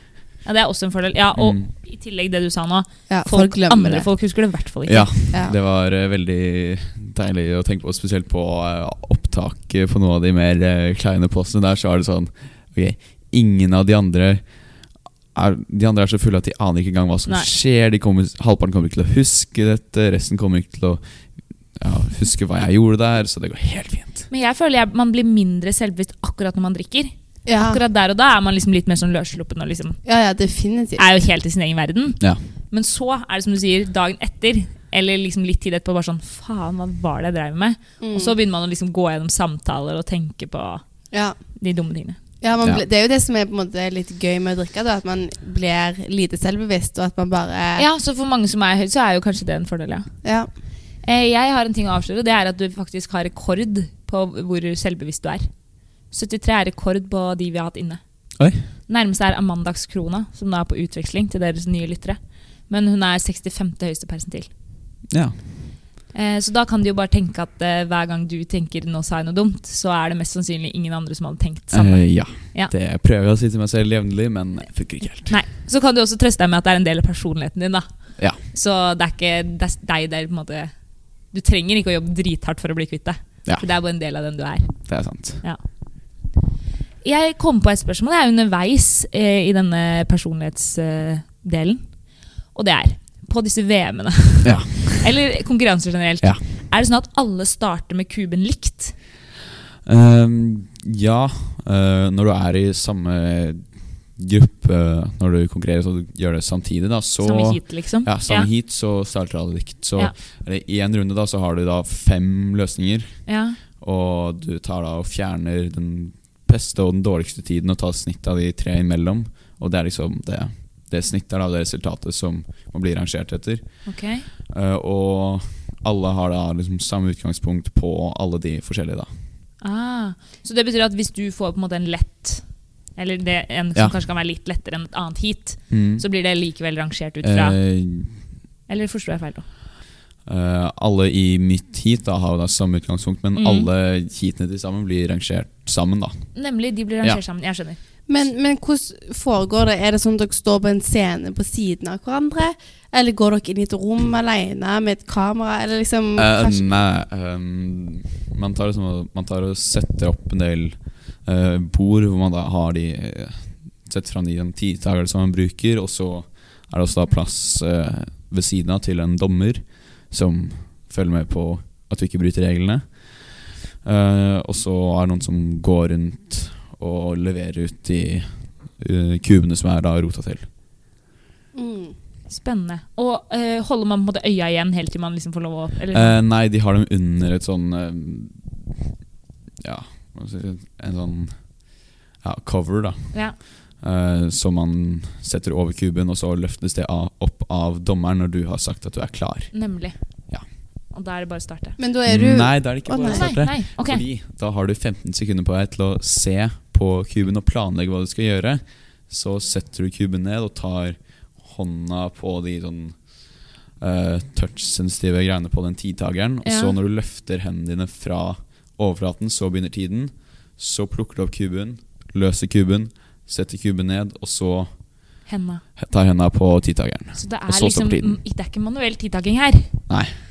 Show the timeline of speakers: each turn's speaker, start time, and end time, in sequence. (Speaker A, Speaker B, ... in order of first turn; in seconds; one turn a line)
Speaker A: 0.4-5.1
Speaker B: 1.4-1.7
Speaker C: 3.1-4.1
Speaker B: 4.9-24.3
Speaker A: 24.3-30.0
Speaker C: 27.4-27.8
Speaker C: 30.1-31.1
Speaker A: 31.0-40.9
Speaker C: 38.0-38.3
Speaker C: 41.1-41.4
Speaker A: 41.5-42.2
Speaker C: 42.4-47.9
Speaker A: 47.8-50.1
Speaker C: 50.2-50.5
Speaker A: 51.0-55.5
Speaker A: 56.1-58.0
Speaker B: 58.4-58.7
Speaker A: 58.9-64.5
Speaker B: 65.1-65.4
Speaker A: 66.1-72.7
Speaker B: 71.7-75.3
Speaker A: 75.3-80.7
Speaker A: 81.3-84.9
Speaker B: 84.9-85.4
Speaker A: 87.0-92.0
Speaker A: 92.5-99.0
Speaker B: 94.4-95.1
Speaker B: 99.8-129.1
Speaker A: 107.2-108.5
Speaker A: 113.3-113.6
Speaker A: 123.9-124.3
Speaker A: 129.6-137.6
Speaker B: 135.7-136.0
Speaker B: 137.2-138.2
Speaker A: 138.7-139.4
Speaker B: 140.3-146.3
Speaker A: 143.4-143.7
Speaker A: 146.3-147.8
Speaker C: 148.1-156.7
Speaker B: 156.2-180.5
Speaker C: 181.5-182.0
Speaker A: 182.3-186.2
Speaker B: 185.9-188.9
Speaker B: 189.6-199.7
Speaker A: 193.1-193.4
Speaker A: 199.5-200.0
Speaker A: 200.5-201.8
Speaker C: 201.8-203.3
Speaker B: 202.1-225.2
Speaker A: 203.1-204.0
Speaker A: 216.4-216.8
Speaker A: 225.2-225.6
Speaker B: 225.8-228.2
Speaker A: 227.2-229.9
Speaker B: 229.9-230.2